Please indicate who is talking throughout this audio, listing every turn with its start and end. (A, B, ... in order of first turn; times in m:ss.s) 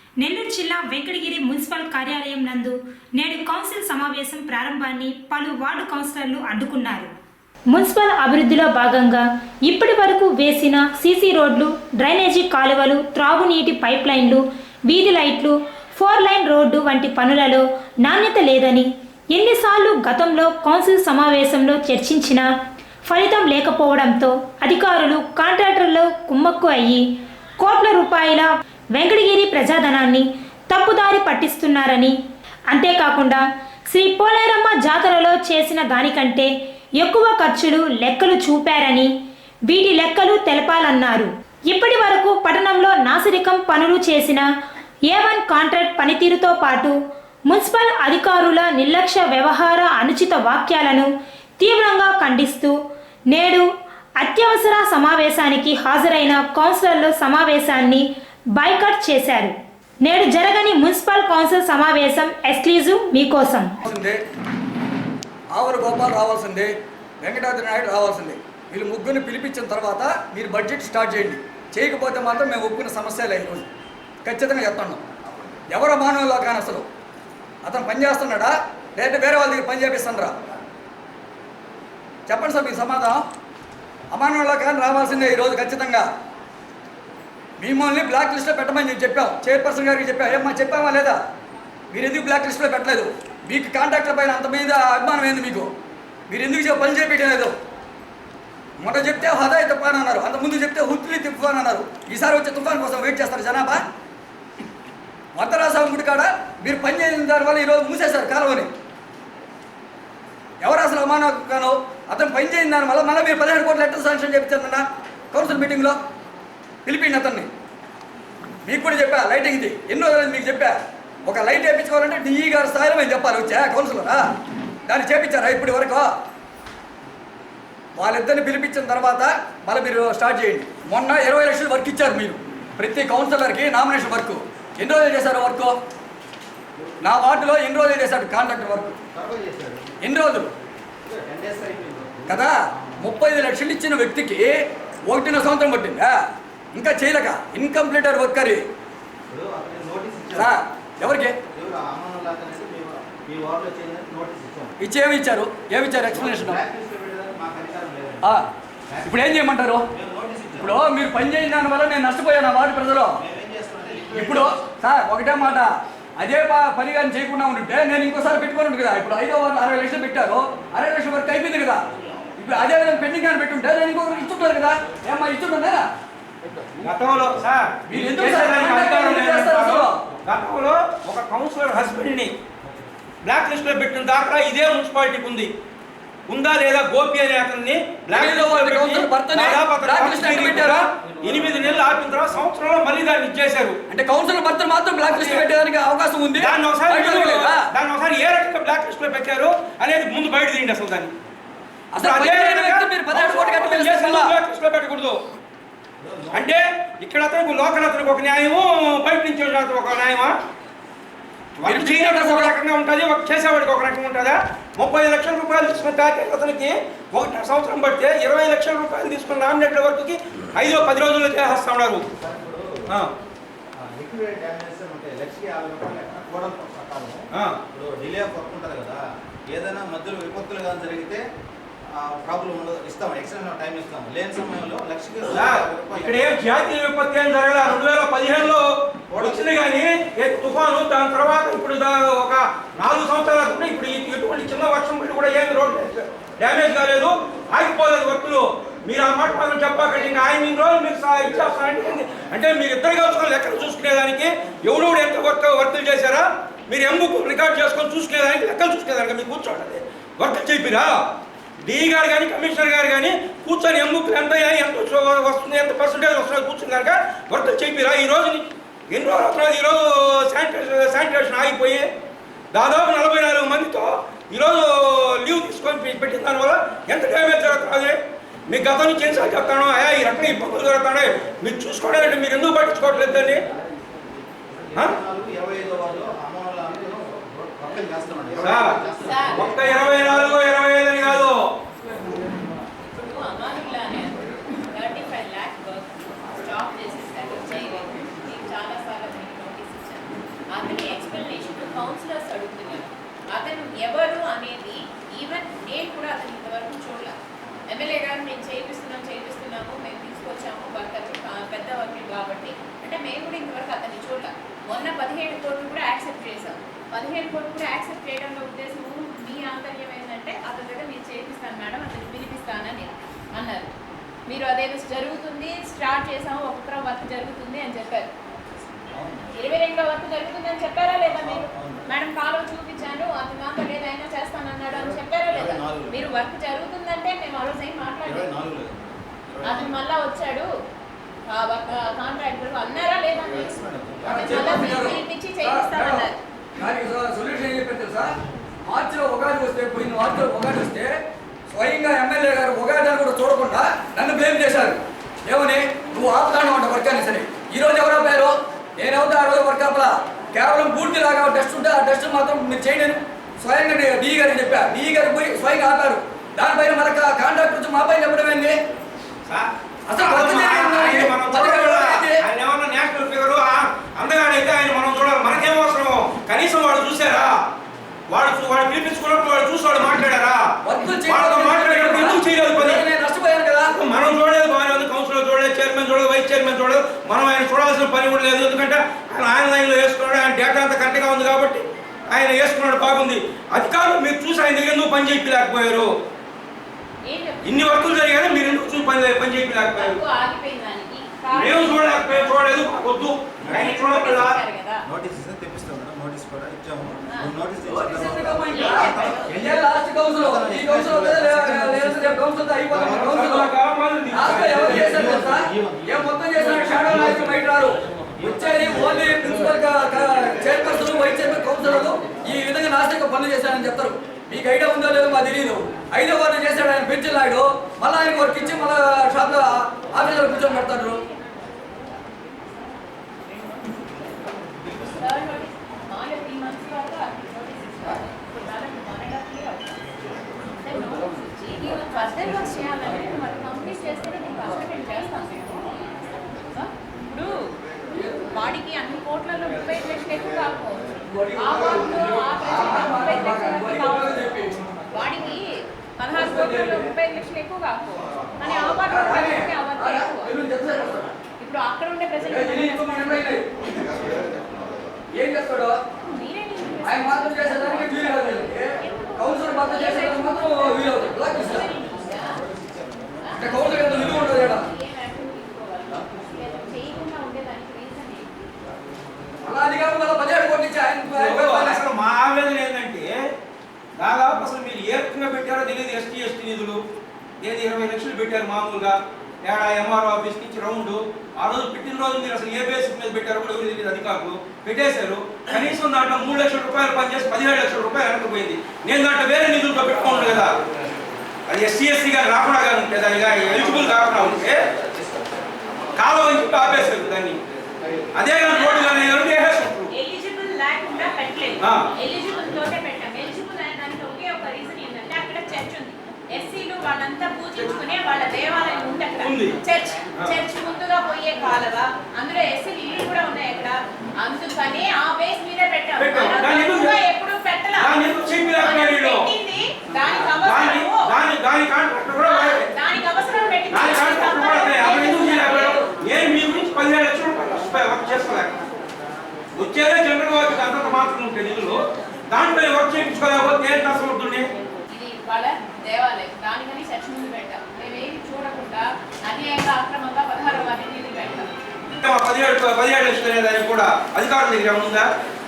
0:00.2-0:07.1 A
0:07.7-0:22.5 A
0:23.0-0:27.1 A
0:27.6-0:32.1 A
0:32.7-0:39.1 A
0:39.7-0:44.4 A
0:45.1-0:47.0 A
0:47.5-0:52.7 A
0:53.3-0:53.7 A
0:54.2-1:03.8 A
1:03.8-1:04.2 B
1:05.5-1:13.7 B
1:14.2-1:15.0 B
1:15.7-1:16.8 B
1:17.6-1:20.4 B
1:22.3-1:23.2 B
1:24.1-1:26.1 B
1:27.6-1:31.2 B
1:31.9-1:35.7 B
1:36.3-1:37.5 B
1:38.8-1:43.8 B
1:45.4-1:48.7 B
1:50.6-1:56.0 B
1:56.8-1:57.5 B
1:58.6-2:04.2 B
2:04.9-2:06.1 B
2:08.0-2:15.7 B
2:17.0-2:19.0 B
2:19.1-2:19.8 C
2:20.0-2:20.5 B
2:21.0-2:23.0 C
2:22.3-2:24.6 B
2:25.1-2:26.1 B
2:26.7-2:28.6 B
2:29.3-2:30.5 C
2:30.4-2:31.3 B
2:31.5-2:34.7 C
2:34.8-2:36.6 B
2:36.1-2:38.2 C
2:38.9-2:39.4 C
2:39.0-2:39.8 B
2:39.9-2:40.8 C
2:40.6-2:43.2 B
2:43.2-2:44.6 C
2:44.1-2:51.8 B
2:52.4-2:55.9 B
2:56.8-3:02.3 D
2:57.9-3:00.0 B
3:03.2-3:05.5 D
3:06.3-3:13.8 D
3:08.1-3:10.9 B
3:13.9-3:17.6 B
3:15.0-3:15.4 D
3:16.4-3:21.1 D
3:21.9-3:24.4 B
3:22.0-3:25.2 D
3:26.0-3:26.5 C
3:26.3-3:30.4 D
3:31.6-3:42.0 D
3:31.6-3:32.5 B
3:42.2-3:42.8 C
3:43.8-3:51.2 C
3:47.3-3:47.6 D
3:51.9-3:56.3 C
3:55.3-4:21.1 D
3:59.1-3:59.4 C
4:21.6-4:31.9 D
4:32.5-4:43.4 D
4:44.5-4:49.7 C
4:48.4-4:48.8 D
4:49.0-4:49.6 E
4:49.3-4:51.5 D
4:53.0-5:07.2 E
5:07.7-5:23.7 E
5:24.3-5:28.1 E
5:28.7-5:29.3 C
5:29.3-5:38.3 E
5:31.1-5:31.9 C
5:34.8-5:36.1 C
5:38.0-5:39.8 C
5:39.4-5:40.5 E
5:41.3-5:46.2 E
5:43.2-5:45.0 C
5:44.1-5:48.2 B
5:48.7-5:50.9 B
5:51.5-6:08.5 B
6:09.3-6:17.4 D
6:09.9-6:12.2 B
6:18.1-6:20.5 D
6:20.6-6:23.7 B
6:21.1-6:22.8 D
6:23.7-6:35.9 D
6:37.0-6:38.8 E
6:37.4-6:40.0 D
6:39.7-6:42.6 E
6:41.3-6:44.4 D
6:43.4-6:43.8 C
6:43.5-6:44.8 E
6:44.8-6:53.1 C
6:47.7-6:53.5 B
6:48.5-6:49.2 E
6:52.8-6:54.9 D
6:54.1-7:11.0 B
6:54.3-6:57.4 C
6:58.2-6:59.3 C
7:10.0-7:11.6 E
7:13.2-7:14.0 E
7:14.6-7:15.0 C
7:14.9-7:19.9 E
7:20.5-7:27.5 E
7:27.9-7:28.3 B
7:28.3-7:34.3 E
7:31.1-7:34.6 B
7:34.9-7:40.3 E
7:36.1-7:36.9 B
7:38.5-7:41.1 B
7:41.4-7:43.3 E
7:42.2-7:43.4 B
7:45.1-7:45.8 B
7:46.0-7:52.4 E
7:46.8-7:51.7 B
7:52.2-7:53.4 C
7:53.2-7:58.3 E
7:53.3-7:54.7 B
7:59.4-8:01.8 B
8:01.1-8:03.2 D
8:04.0-8:06.8 D
8:07.4-8:20.5 D
8:21.5-8:24.6 D
8:23.5-8:25.4 C
8:26.0-8:27.4 D
8:28.1-8:29.9 D
8:28.5-8:29.2 E
8:29.9-8:48.0 E
8:39.2-8:39.6 D
8:46.0-8:47.0 D
8:47.8-8:49.3 D
8:48.6-8:51.0 E
8:50.3-8:52.6 D
8:52.2-8:55.8 E
8:53.7-8:58.5 D
8:59.5-9:01.8 D
9:02.3-9:04.5 D
9:04.9-9:11.5 E
9:11.9-9:15.1 D